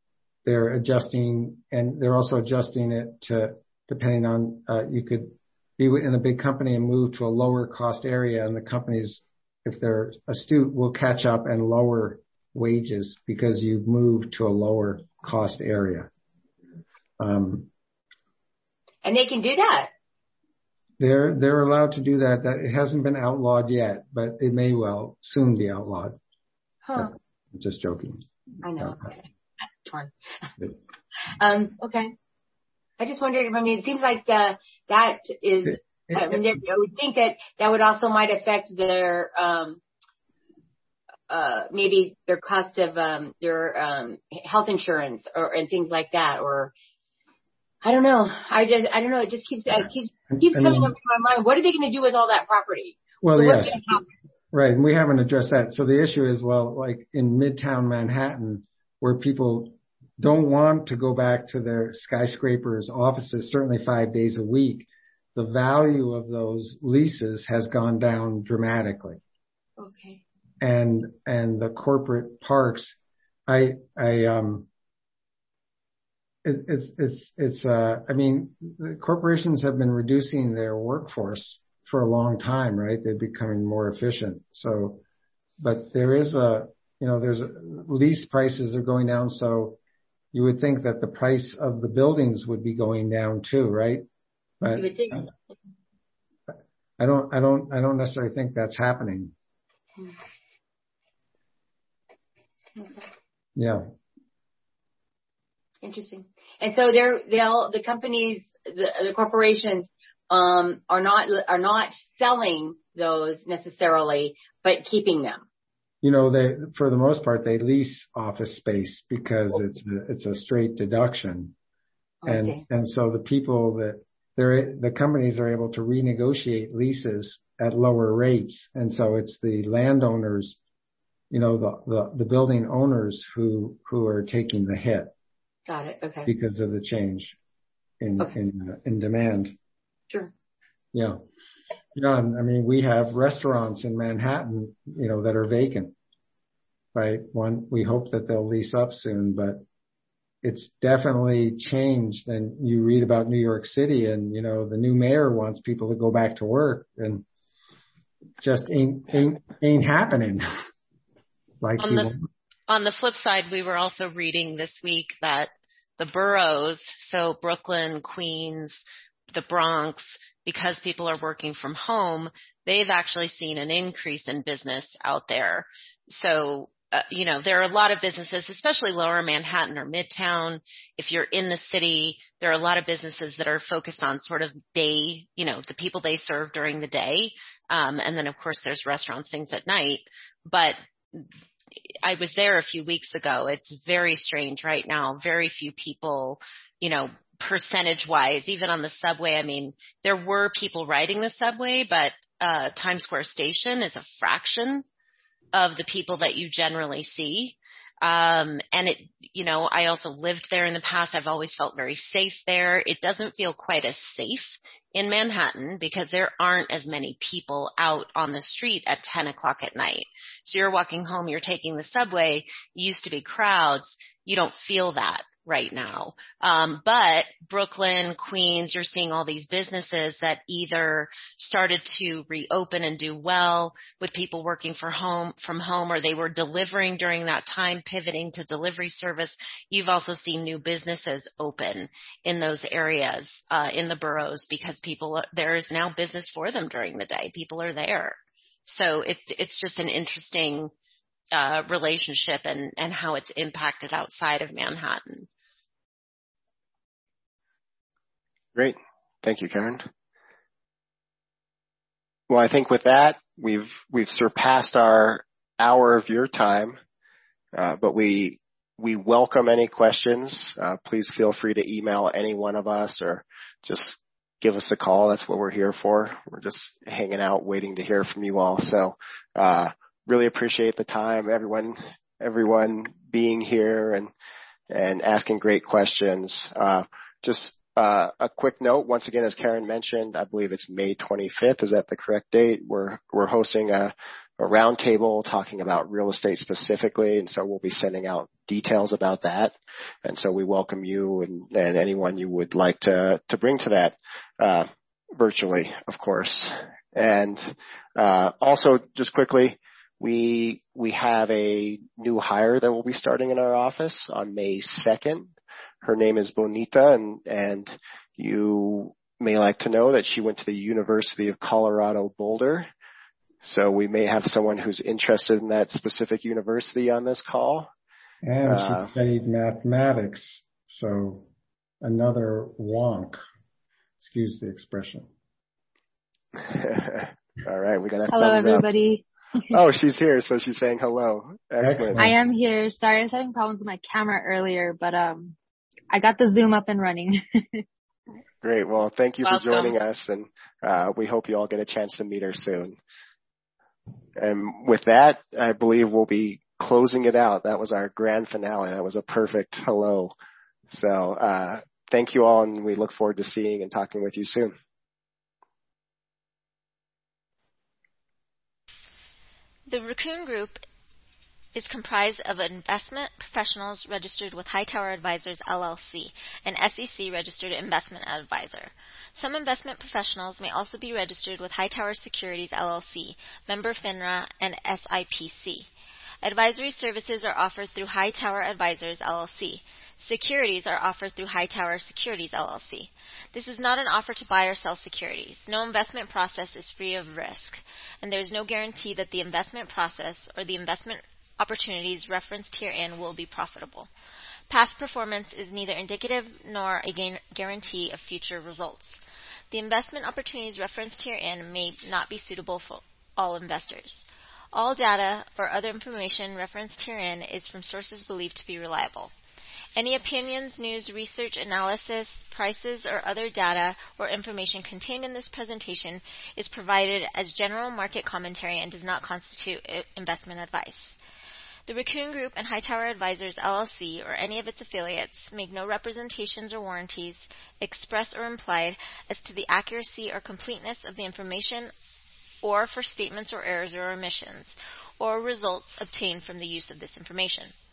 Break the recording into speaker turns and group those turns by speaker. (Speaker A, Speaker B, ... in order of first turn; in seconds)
Speaker A: 0.5-16.1, 17.2-17.7, 21.0-26.2, 27.0-28.3, 28.8-29.1, 36.1-36.4, 50.4-50.9, 53.2-53.8, 54.5-69.2, 70.6-73.0, 73.5-74.7, 76.5-85.0, 85.6-89.8, 90.3-94.0, 94.6-95.3, 97.0-99.3, 103.5-103.9, 116.0-121.5, 122.3-130.6, 131.3-135.1, 136.2-137.4, 138.0-139.5, 140.9-141.2, 141.9-145.9, 146.9-149.6, 150.4-157.3, 158.4-160.5, 161.6-162.3, 328.2-331.3, 331.8-333.2, 334.0-335.1, 341.6-342.1
Speaker B: 19.0-19.9, 26.9-27.1, 28.6-29.2, 29.9-30.1, 31.4-32.1, 33.0-39.8, 41.3-46.7, 47.8-54.0, 69.8-70.2, 94.7-95.3, 102.8-103.1, 105.8-115.4, 122.2-122.6, 135.7-136.3
Speaker C: 161.8-162.1, 162.7-191.3, 192.0-204.8, 205.5-250.7, 251.3-255.3
Speaker D: 258.6-259.9, 262.3-266.8, 267.5-284.1, 284.7-322.7, 323.4-327.7, 328.5-328.9, 336.4-338.7, 339.5-342.1, 348.4-352.8, 354.2-360.1, 360.7-364.6
Speaker E: 338.1-339.0, 342.0-345.4, 345.9-347.6
Speaker F: 369.7-370.6, 371.6-385.7, 386.2-403.9, 404.5-409.0, 409.5-419.1, 419.8-431.0, 431.7-441.7, 442.4-447.5